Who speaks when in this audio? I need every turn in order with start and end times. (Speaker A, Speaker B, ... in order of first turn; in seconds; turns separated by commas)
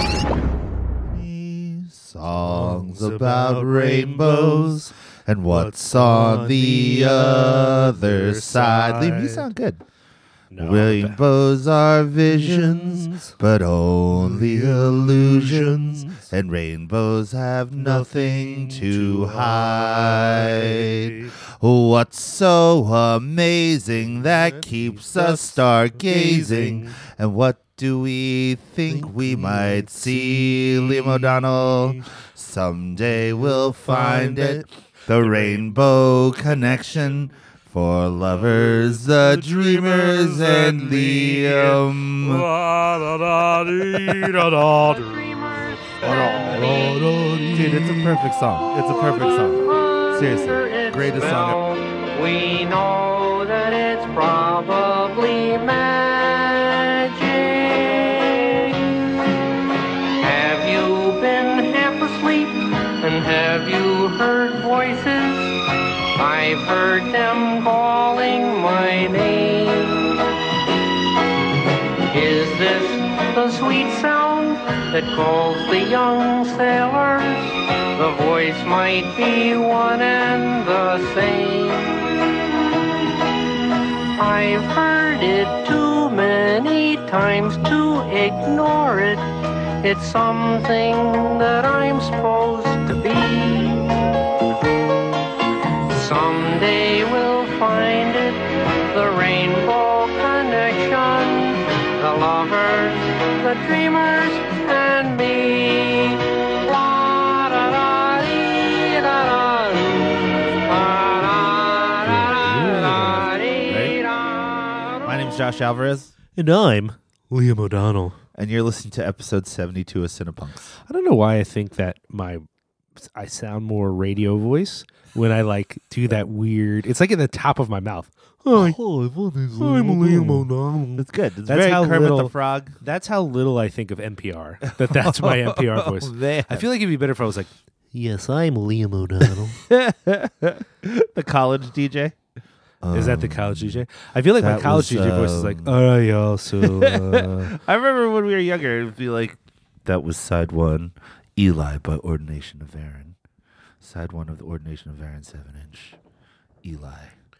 Speaker A: 1.0-9.8, Speaker B: 2.3-4.9, Speaker B: 5.5-9.5, Speaker B: 10.5-11.2, Speaker A: 10.6-42.5, Speaker B: 12.3-13.3, Speaker B: 14.1-16.3, Speaker B: 17.8-21.3, Speaker B: 24.0-26.9, Speaker B: 28.9-32.1, Speaker B: 33.3-35.8, Speaker B: 39.5-41.8, Speaker B: 42.5-44.9, Speaker C: 44.5-47.0, Speaker B: 46.0-47.6, Speaker A: 46.1-46.8, Speaker A: 47.5-51.6, Speaker C: 48.7-59.1, Speaker C: 60.2-65.6, Speaker C: 66.2-70.2, Speaker C: 72.1-82.2, Speaker C: 84.1-89.3, Speaker C: 89.8-93.9, Speaker C: 95.9-115.1, Speaker B: 112.0-113.3, Speaker A: 113.7-114.0, Speaker A: 115.0-116.1, Speaker B: 116.3-118.2, Speaker A: 118.3-120.7, Speaker B: 120.8-122.4, Speaker B: 123.0-128.8, Speaker A: 128.5-132.8, Speaker B: 129.6-139.6, Speaker A: 134.8-136.7, Speaker A: 139.6-142.1, Speaker A: 142.8-143.8, Speaker B: 142.9-147.6, Speaker A: 144.4-145.7, Speaker A: 146.6-153.2, Speaker A: 153.8-156.0, Speaker A: 156.6-157.1